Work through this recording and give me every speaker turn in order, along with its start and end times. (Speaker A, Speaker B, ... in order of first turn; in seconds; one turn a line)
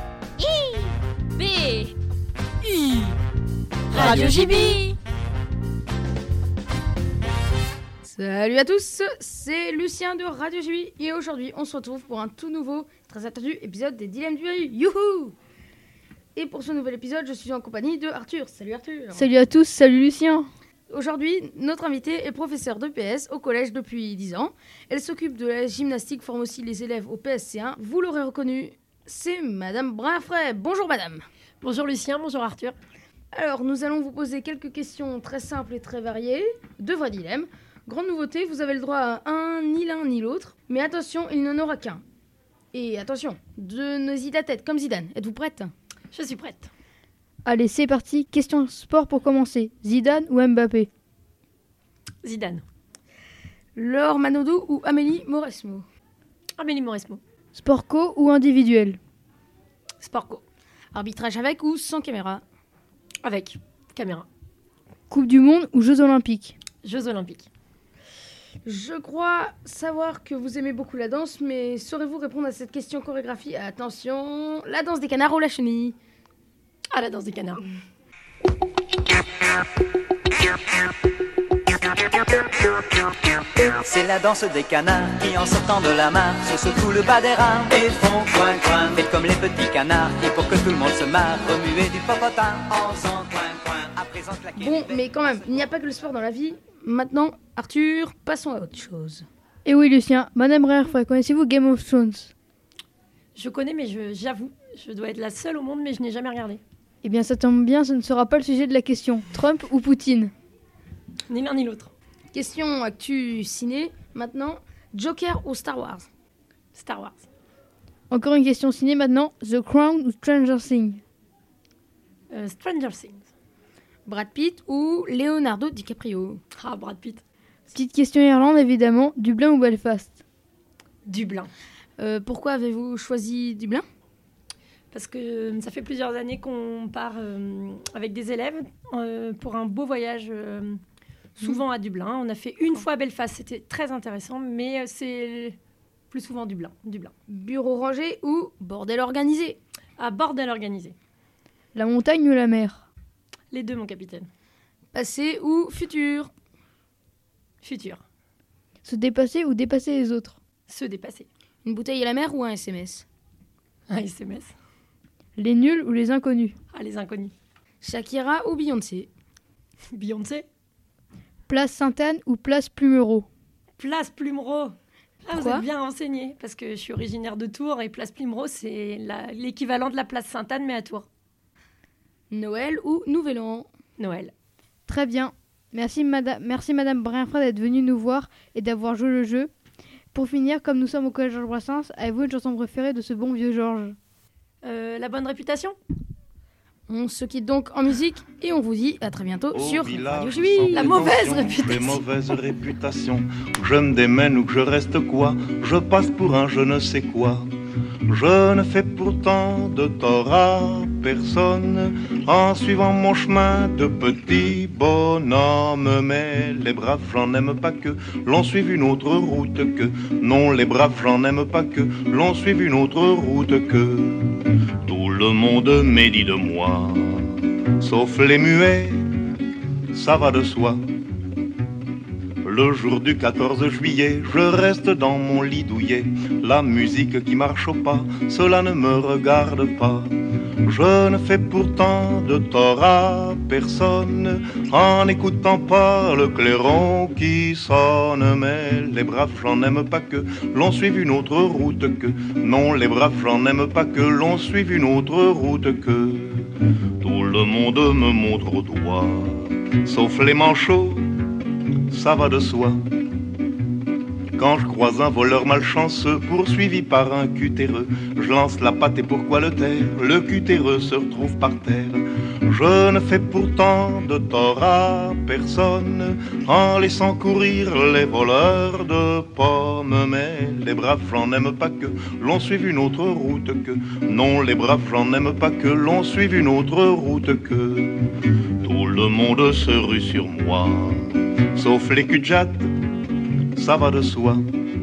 Speaker A: 0.4-1.9
Speaker B: 3.9-4.7
Speaker A: 3.9-5.0
Speaker C: 8.0-15.3
Speaker C: 16.4-19.3
Speaker D: 19.1-20.5
Speaker C: 20.9-31.2
Speaker B: 31.6-32.8
Speaker C: 33.3-42.0
Speaker C: 42.7-45.7
Speaker B: 46.1-46.7
Speaker D: 47.5-50.9
Speaker B: 52.2-52.6
Speaker C: 53.8-55.9
Speaker B: 56.6-57.2
Speaker D: 57.5-59.0
Speaker B: 60.0-60.4
Speaker C: 60.9-62.4
Speaker B: 63.2-64.3
Speaker D: 65.1-66.6
Speaker B: 66.8-67.5
Speaker C: 68.7-76.0
Speaker B: 76.9-77.7
Speaker E: 83.8-95.6
Speaker C: 94.6-99.2
Speaker D: 99.7-102.3
Speaker B: 103.3-106.6
Speaker D: 107.0-110.3
Speaker B: 111.3-111.9
Speaker C: 112.3-116.1
Speaker B: 116.7-117.3
Speaker D: 118.1-121.0
Speaker B: 122.3-123.3
Speaker C: 124.1-126.4
Speaker B: 126.6-127.2
Speaker D: 127.7-130.2
Speaker B: 131.1-131.5
Speaker C: 132.0-133.8
Speaker B: 134.9-140.8
Speaker B: 141.4-145.6
Speaker B: 146.1-147.1
Speaker C: 147.3-149.6
Speaker B: 150.0-150.9
Speaker D: 151.8-152.8
Speaker B: 153.5-154.3
Speaker C: 154.9-156.3
Speaker B: 157.6-158.0
Speaker D: 158.8-160.4
Speaker B: 160.7-161.3
Speaker C: 161.6-163.1
Speaker B: 163.9-164.5
Speaker D: 165.4-166.6
Speaker B: 166.7-167.3
Speaker C: 167.8-169.1
Speaker B: 169.9-170.5
Speaker D: 171.5-173.3
Speaker B: 173.8-181.1
Speaker C: 175.3-175.7
Speaker C: 182.3-183.7
Speaker B: 184.0-184.3
Speaker D: 184.9-189.5
Speaker D: 190.1-194.0
Speaker B: 194.6-195.8
Speaker C: 196.9-201.1
Speaker F: 199.5-207.5
Speaker B: 200.7-202.0
Speaker F: 208.1-229.0
Speaker F: 229.9-230.8
Speaker F: 232.4-261.1
Speaker F: 261.9-262.8
Speaker F: 264.4-292.7
Speaker F: 293.5-294.4